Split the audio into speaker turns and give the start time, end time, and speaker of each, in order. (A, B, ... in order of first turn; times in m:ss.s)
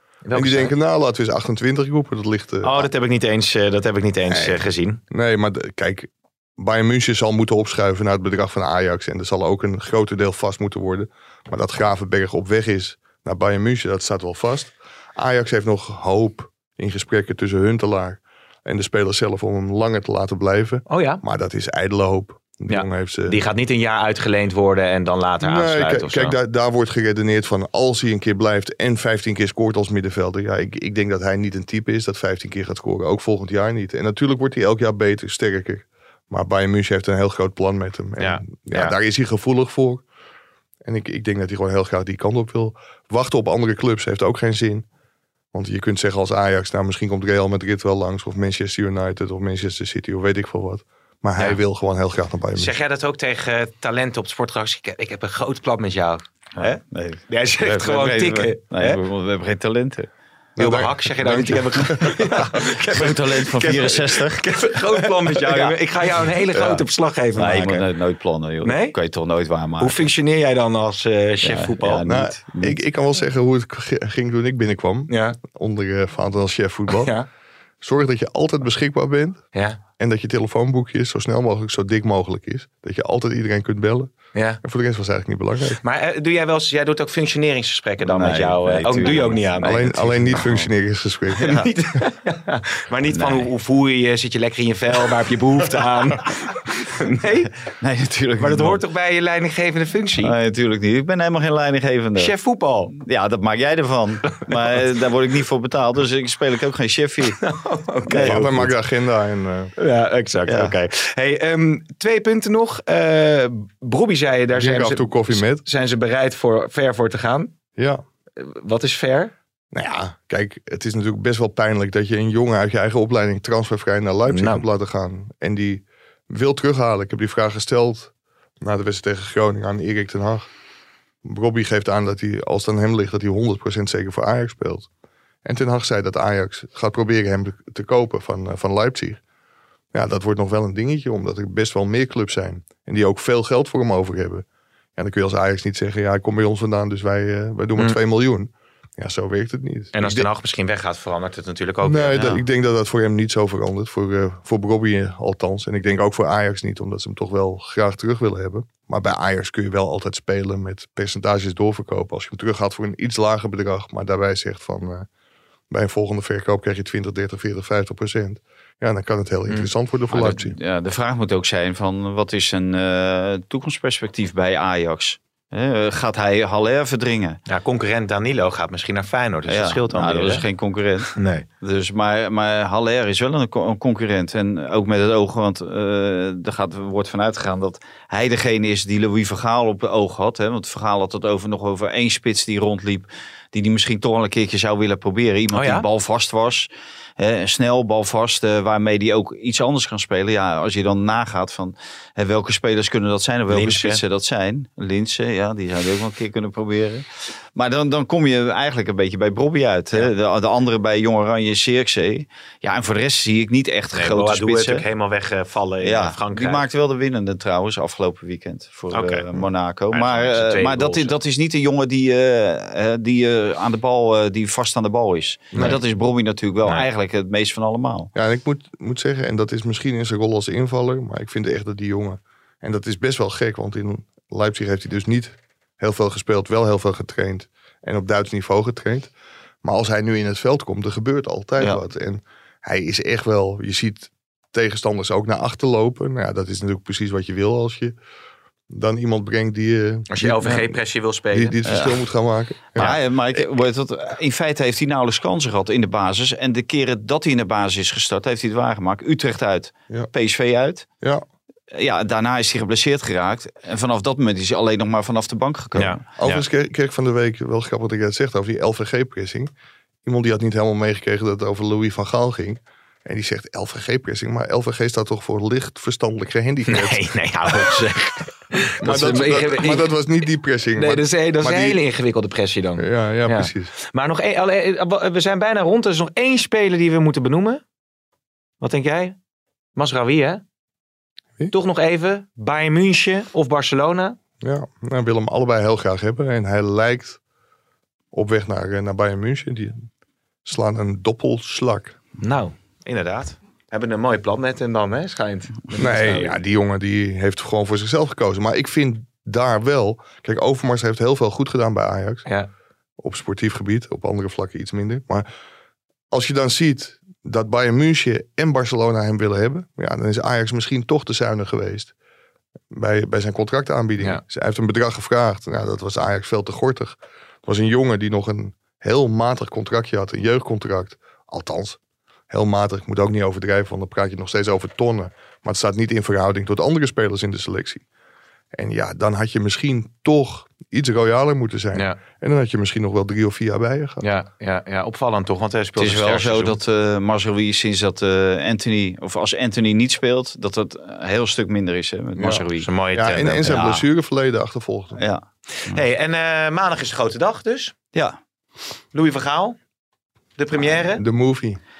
0:00.2-0:00.7 A
0:00.3-0:02.9 B
0:02.6-0:05.0 A
0:04.3-0:23.4 B
0:20.9-0:21.2 A
0:22.7-0:26.4 A
0:25.4-0:40.0 B
0:38.2-0:38.9 A
0:40.8-0:44.8 B
0:45.5-0:52.7 B
0:52.6-0:56.8 A
0:56.6-1:00.1 C
0:57.3-0:59.0 A
1:00.6-1:02.6 B
1:00.6-1:07.8 A
1:02.8-1:04.4 C
1:05.5-1:05.7 C
1:06.5-1:06.8 B
1:07.4-1:10.1 C
1:08.6-1:08.9 A
1:09.8-1:12.0 A
1:11.4-1:12.8 C
1:12.0-1:17.1 B
1:15.1-1:15.4 A
1:16.9-1:17.3 A
1:17.8-1:19.4 B
1:20.0-1:25.8 B
1:24.3-1:24.6 A
1:25.8-1:30.4 A
1:28.0-1:30.6 C
1:29.6-1:31.6 B
1:31.3-1:37.5 A
1:33.1-1:33.5 C
1:37.8-1:38.8 C
1:38.4-1:40.3 A
1:40.2-1:42.3 C
1:42.2-1:42.9 A
1:42.9-1:47.4 C
1:47.4-1:48.6 A
1:48.1-1:48.7 C
1:48.1-1:49.7 B
1:49.8-1:57.5 A
1:50.5-1:50.7 C
1:54.5-1:55.6 B
1:57.8-1:58.0 B
1:58.4-1:59.3 A
1:59.7-2:10.5 B
2:04.3-2:04.6 A
2:11.2-2:14.9 B
2:15.4-2:19.2 B
2:19.9-2:24.4 B
2:25.0-2:30.3 B
2:29.9-2:32.4 A
2:31.8-2:45.1 B
2:45.7-2:50.5 B
2:50.1-2:57.4 C
2:57.5-3:00.4 A
2:59.5-3:34.8 C
3:01.1-3:01.4 A
3:15.5-3:15.8 A
3:23.5-3:24.0 A
3:33.9-3:36.6 A
3:35.8-3:48.1 C
3:38.9-3:39.4 A
3:39.9-3:41.1 A
3:45.5-3:45.8 A
3:48.1-3:59.1 B
3:59.6-4:08.0 B
4:08.7-4:10.8 B
4:10.1-4:11.6 A
4:11.3-4:13.5 B
4:11.6-4:12.0 C
4:12.7-4:20.8 C
4:21.7-4:26.0 C
4:25.8-4:26.4 A
4:26.2-4:29.5 B
4:30.0-4:37.8 B
4:36.7-4:39.9 A
4:38.8-4:41.8 B
4:40.8-4:47.6 A
4:42.8-4:43.7 B
4:48.6-4:49.2 A
4:49.8-4:50.4 A
4:51.5-4:54.2 A
4:54.4-4:57.2 B
4:58.1-4:59.9 B
5:00.4-5:02.0 B
5:02.2-5:06.4 A
5:05.8-5:12.2 B
5:13.0-5:15.2 B
5:16.1-5:21.9 B
5:22.7-5:31.8 B
5:32.3-5:37.8 B
5:38.5-5:44.0 B
5:44.0-5:46.6 A
5:45.8-5:52.7 C
5:52.2-5:55.0 B
5:52.6-5:53.5 A
5:53.4-5:53.8 C
5:55.0-5:55.8 C
5:55.6-5:57.7 A
5:58.9-5:59.6 A
6:00.4-6:01.0 A
6:01.0-6:01.6 B